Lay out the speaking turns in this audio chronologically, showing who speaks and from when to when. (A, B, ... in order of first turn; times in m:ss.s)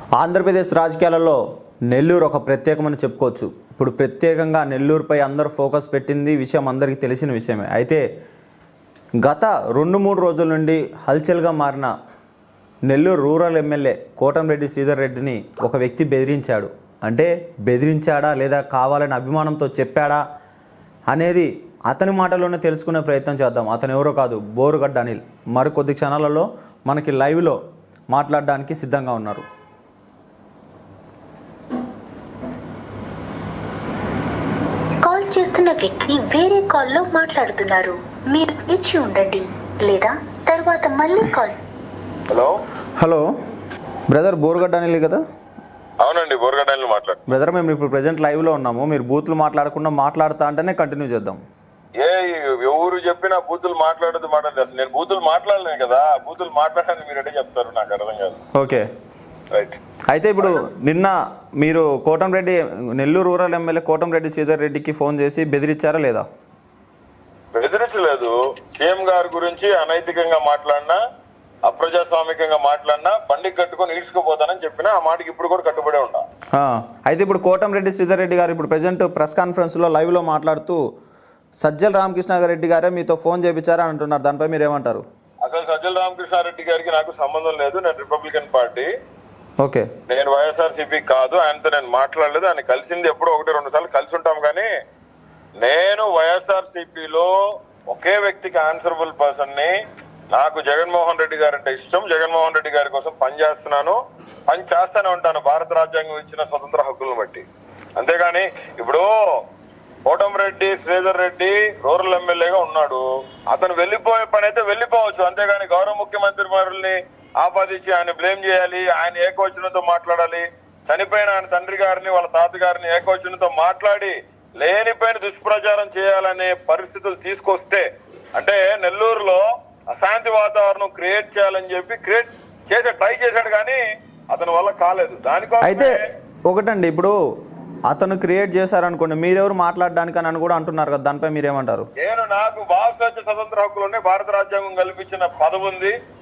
0:00.2-0:01.4 A
0:01.9-0:08.0 A
0:09.2-0:11.9 A
0:12.9-0:20.2 A
0:21.1-0:27.6 A
0:28.1-0:29.4 A
0:35.0-0:41.6 B
0:42.3-0:42.6 C
0:43.0-0:43.2 A
0:44.1-0:45.2 A
0:46.0-0:47.2 C
0:47.3-0:51.4 A
0:52.0-0:58.4 C
0:58.5-0:58.8 A
0:59.5-0:59.8 C
1:00.1-1:06.3 A
1:07.5-1:11.0 C
1:11.6-1:16.2 C
1:16.6-1:20.8 A
1:21.6-1:25.0 A
1:25.4-1:28.9 C
1:29.6-1:29.9 A
1:30.1-1:34.7 C
1:35.6-1:37.3 C
1:37.9-1:39.7 C
1:40.3-1:47.4 C
1:48.0-1:49.2 C
1:50.0-2:13.8 C
2:14.3-2:16.0 C
2:15.6-2:17.1 A
2:17.9-2:21.9 A
2:22.0-2:25.9 C